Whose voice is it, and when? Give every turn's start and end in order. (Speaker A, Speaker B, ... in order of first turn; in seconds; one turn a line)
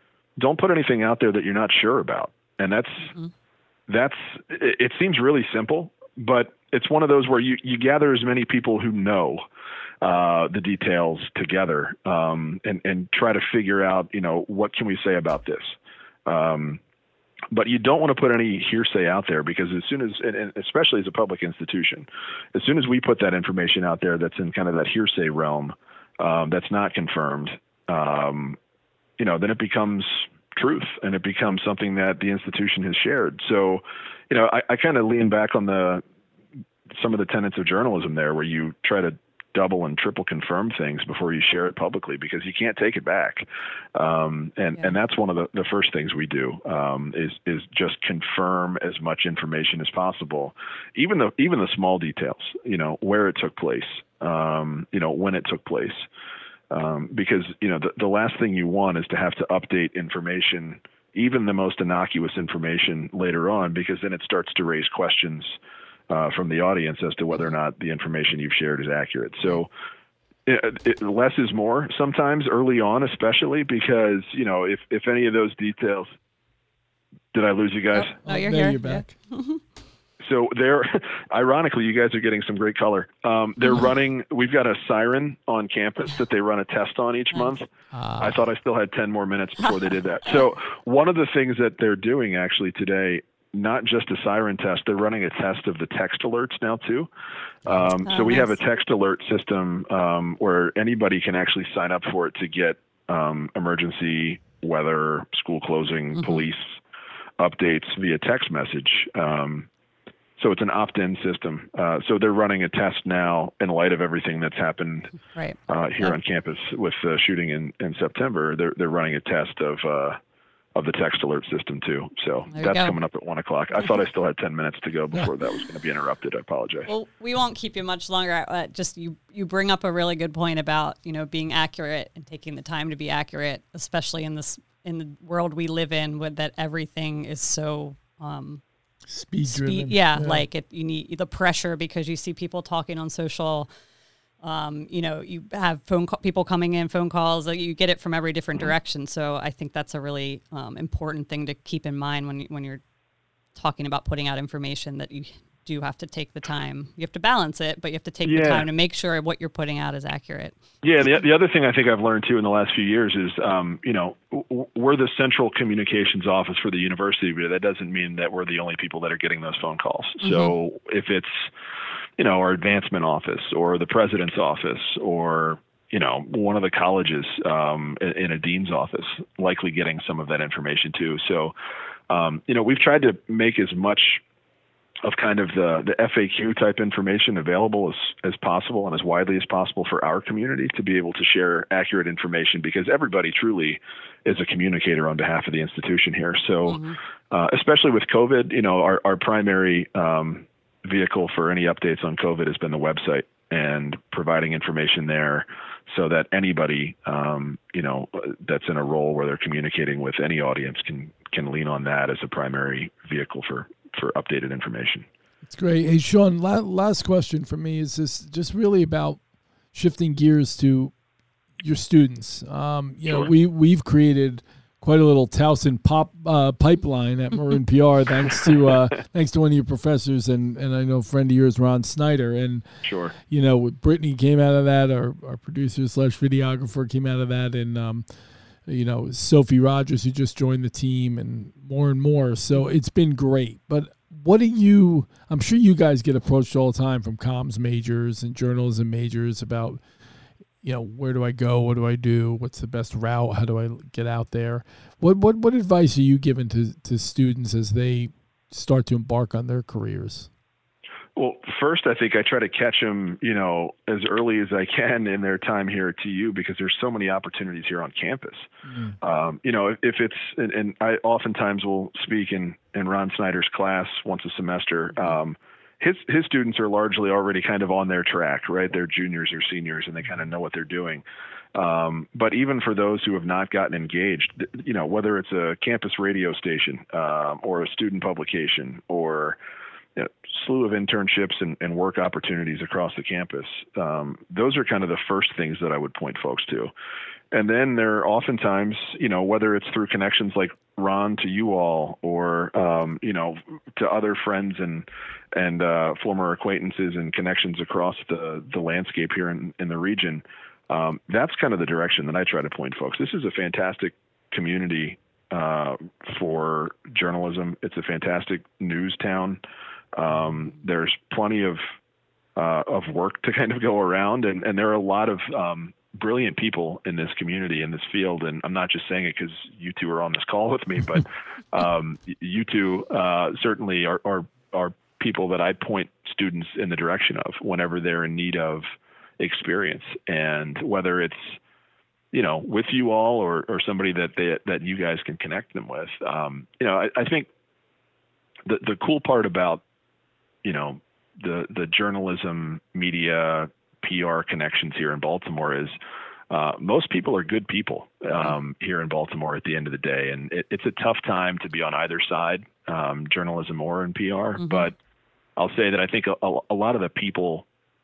Speaker A: 0.4-3.1
Speaker A: 3.9-9.4
Speaker A: 10.0-16.8
Speaker A: 17.5-28.6
Speaker A: 29.2-36.0
Speaker A: 36.9-56.1
Speaker A: 56.7-65.5
Speaker A: 66.1-69.7
Speaker A: 70.5-76.1
Speaker A: 77.3-78.2
Speaker B: 77.9-79.6
Speaker C: 78.2-79.1
Speaker A: 80.2-97.1
Speaker C: 87.9-88.3
Speaker A: 97.7-106.8
Speaker B: 98.1-98.5
Speaker B: 106.2-106.5
Speaker A: 107.4-109.7
Speaker A: 110.4-115.2
Speaker B: 115.3-116.2
Speaker A: 115.7-120.2
Speaker A: 120.8-126.9
Speaker B: 122.5-123.0
Speaker B: 126.9-138.6
Speaker C: 139.1-140.4
Speaker B: 139.4-143.7
Speaker B: 144.4-152.8
Speaker B: 153.6-160.6
Speaker A: 158.2-158.7
Speaker A: 160.8-171.5
Speaker B: 170.2-170.6
Speaker A: 172.2-181.6
Speaker A: 182.1-184.2
Speaker A: 185.0-215.1
Speaker B: 196.7-197.0
Speaker C: 215.4-219.2
Speaker C: 219.7-220.9
Speaker C: 221.6-232.7
Speaker A: 232.8-233.2
Speaker C: 233.3-238.1
Speaker C: 238.7-249.8
Speaker C: 250.6-260.3
Speaker A: 261.2-268.5
Speaker C: 268.6-269.0
Speaker A: 269.0-281.0
Speaker A: 281.6-289.4
Speaker A: 290.0-296.7
Speaker A: 297.3-319.4
Speaker A: 319.9-321.6
Speaker A: 322.4-338.6
Speaker A: 339.2-341.4
Speaker A: 342.1-347.3
Speaker A: 348.5-349.6
Speaker A: 350.4-355.8
Speaker A: 356.3-364.8
Speaker B: 364.4-364.7
Speaker A: 365.4-367.5